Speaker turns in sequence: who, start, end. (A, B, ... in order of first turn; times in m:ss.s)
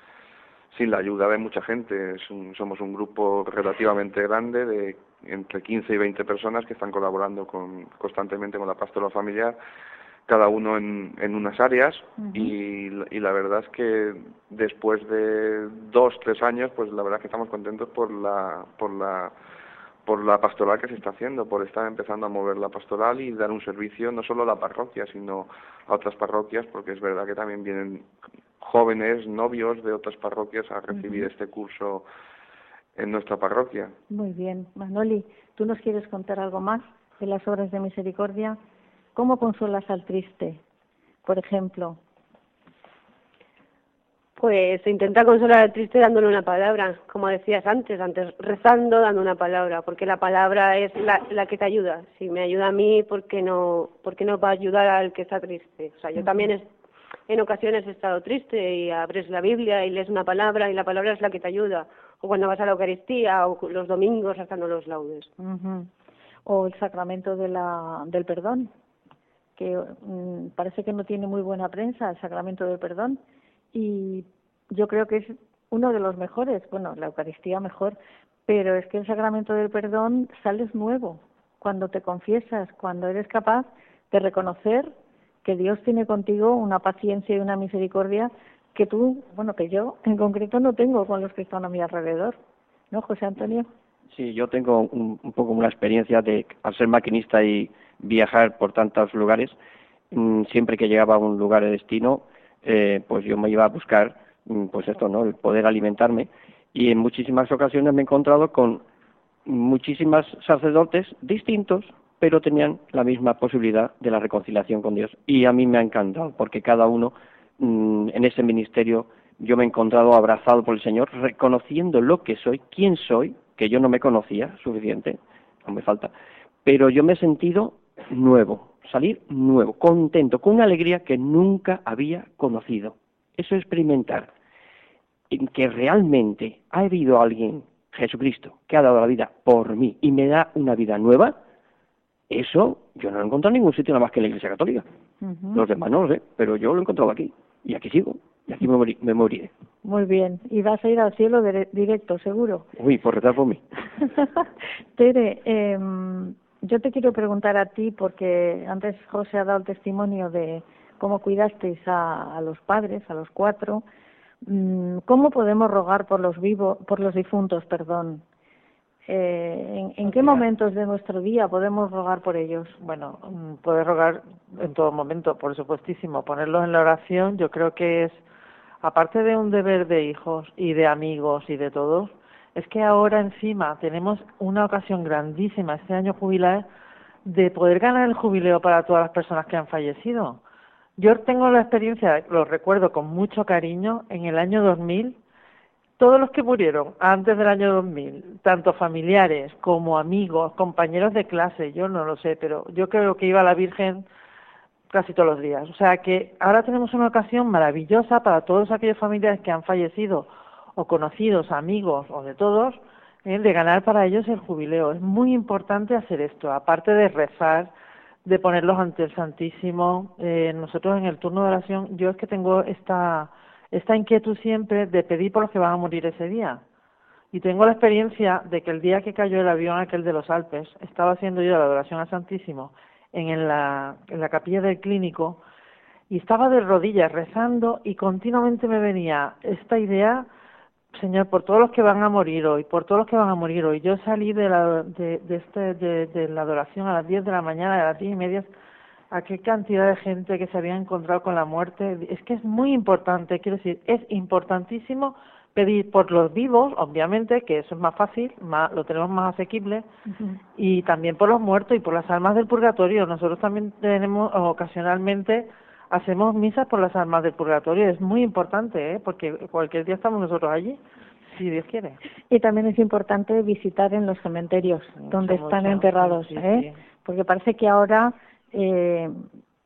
0:00.7-0:09.6 A
0:10.3-0:19.3 A
0:12.2-0:12.5 B
0:20.0-0:28.0 A
0:28.6-0:32.0 A
0:30.9-0:31.3 B
0:33.0-0:33.9 A
0:34.1-0:38.6 B
0:39.1-0:40.6 B
0:41.2-0:42.0 B
0:44.4-0:56.7 C
0:57.3-1:05.3 C
1:05.4-1:05.9 B
1:06.4-1:08.7 B
1:09.6-1:13.2 B
1:13.7-1:24.9 B
1:25.4-1:32.4 B
1:32.9-1:33.7 B
1:34.1-1:39.5 D
1:40.1-1:48.8 D
1:49.4-2:06.1 D
2:06.6-2:14.3 D
2:15.3-2:21.4 D
2:22.3-2:24.8 D
2:25.2-2:25.6 B
2:25.5-2:29.5 D
2:29.8-2:32.7 B
2:32.8-2:33.6 D
2:34.2-2:34.4 B
2:35.0-2:43.8 B
2:44.4-2:48.2 B
2:49.1-2:52.8 B
2:50.0-2:50.4 E
2:52.8-2:58.2 E
2:58.8-3:06.6 E
3:07.2-3:10.4 E
3:11.0-3:15.2 E
3:16.0-3:24.0 E
3:24.9-3:37.7 E
3:38.2-3:46.6 E
3:47.3-3:55.4 E
3:56.1-4:00.2 E
4:00.9-4:08.5 E
4:09.1-4:19.8 E
4:20.6-4:30.8 E
4:31.3-4:32.0 E
4:32.3-4:39.2 B
4:35.0-4:36.8 E